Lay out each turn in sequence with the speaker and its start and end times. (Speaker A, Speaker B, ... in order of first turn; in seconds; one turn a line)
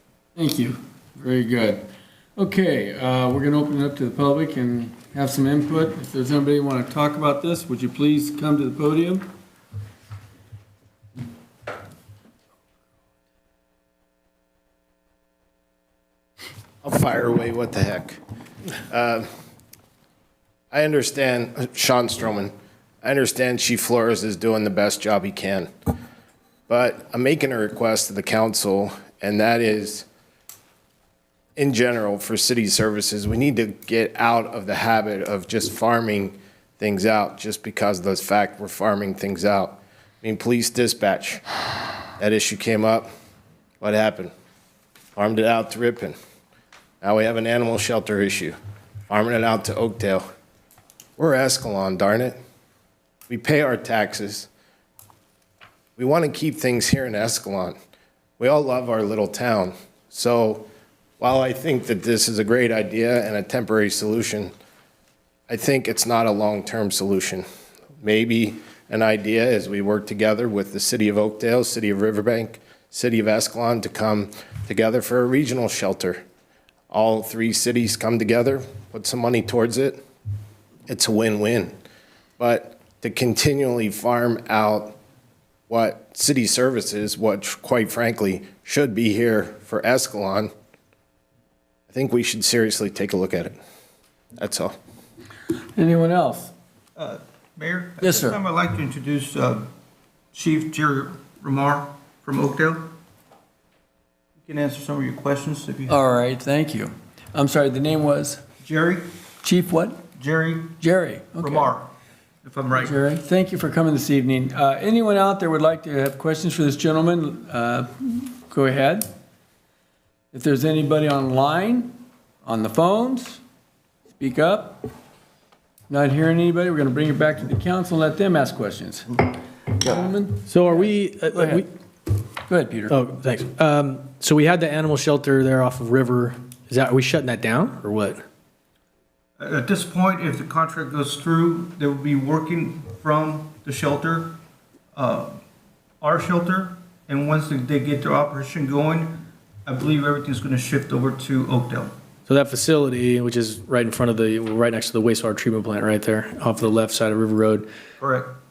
Speaker A: 0.4-9.3
Speaker B: 16.8-18.2
Speaker B: 18.9-19.3
Speaker B: 20.7-25.7
Speaker B: 26.7-30.1
Speaker B: 31.6-41.4
Speaker B: 42.2-43.1
Speaker B: 43.8-44.3
Speaker B: 45.2-46.1
Speaker B: 47.0-48.6
Speaker B: 49.1-50.3
Speaker B: 51.2-52.4
Speaker B: 53.3-54.5
Speaker B: 56.0-57.8
Speaker B: 58.4-60.7
Speaker B: 61.2-64.5
Speaker B: 65.5-67.5
Speaker B: 68.0-76.2
Speaker B: 76.9-80.0
Speaker B: 80.9-81.8
Speaker B: 82.4-85.0
Speaker B: 85.7-90.5
Speaker B: 91.9-93.6
Speaker B: 94.4-94.8
Speaker A: 95.8-96.5
Speaker C: 97.0-99.7
Speaker A: 98.0-98.4
Speaker C: 100.3-102.9
Speaker C: 104.5-106.0
Speaker A: 105.9-108.4
Speaker C: 108.6-109.0
Speaker A: 109.4-110.0
Speaker C: 110.2-110.8
Speaker A: 110.8-111.7
Speaker C: 111.4-111.9
Speaker C: 112.4-113.0
Speaker A: 112.7-119.1
Speaker A: 120.3-123.4
Speaker A: 124.2-124.9
Speaker A: 125.9-131.6
Speaker D: 130.5-131.7
Speaker A: 132.5-133.0
Speaker D: 132.9-138.2
Speaker C: 139.4-144.3
Speaker C: 144.9-145.4
Speaker C: 146.0-151.9
Speaker D: 152.3-157.7
Speaker C: 158.0-158.3